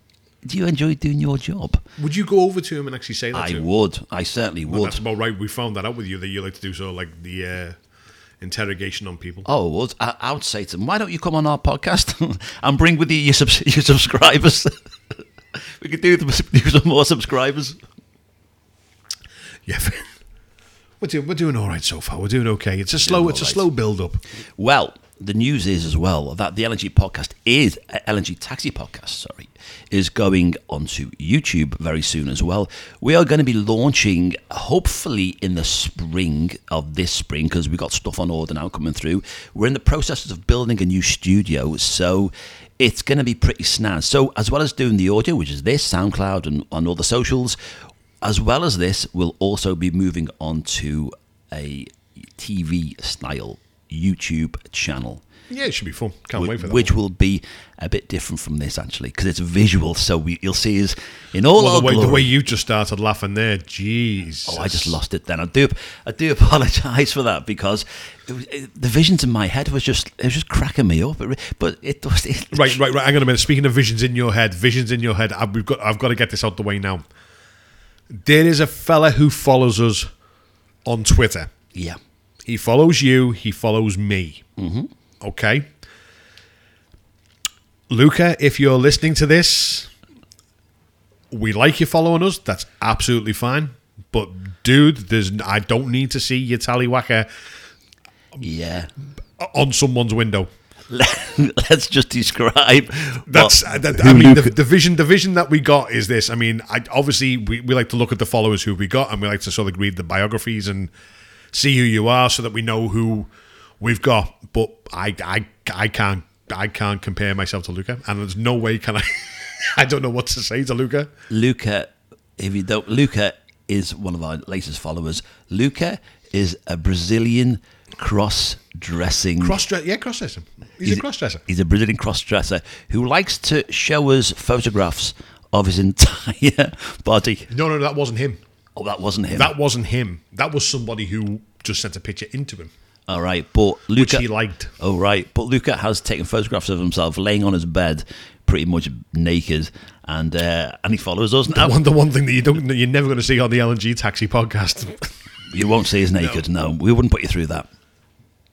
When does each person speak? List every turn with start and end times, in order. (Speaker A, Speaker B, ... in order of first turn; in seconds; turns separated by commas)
Speaker A: 0.5-1.8, Speaker B: 2.0-3.7, Speaker A: 3.3-5.0, Speaker B: 4.7-7.8, Speaker B: 8.4-9.5, Speaker A: 9.5-14.8, Speaker A: 15.6-17.8, Speaker B: 19.7-20.2, Speaker B: 21.0-24.2, Speaker A: 23.0-23.6, Speaker A: 24.6-47.6, Speaker A: 48.2-55.2, Speaker B: 55.5-56.9, Speaker A: 56.4-62.3, Speaker B: 61.6-65.0, Speaker A: 64.5-72.8, Speaker B: 72.5-77.1, Speaker B: 78.1-80.1, Speaker B: 80.8-81.5, Speaker B: 82.5-84.4, Speaker A: 84.6-84.9, Speaker B: 85.2-85.7, Speaker B: 87.9-89.9, Speaker B: 91.3-97.3, Speaker A: 98.4-98.9, Speaker B: 99.4-100.5, Speaker A: 100.9-104.5, Speaker B: 103.3-110.9, Speaker B: 111.5-121.1, Speaker A: 121.3-129.6, Speaker B: 129.4-131.4, Speaker A: 130.8-137.5, Speaker B: 137.5-138.4, Speaker A: 138.8-139.5, Speaker B: 139.3-142.7, Speaker A: 143.1-144.2, Speaker B: 144.0-144.7, Speaker A: 144.8-151.8, Speaker B: 151.5-155.1, Speaker A: 155.5-157.7, Speaker B: 156.2-156.5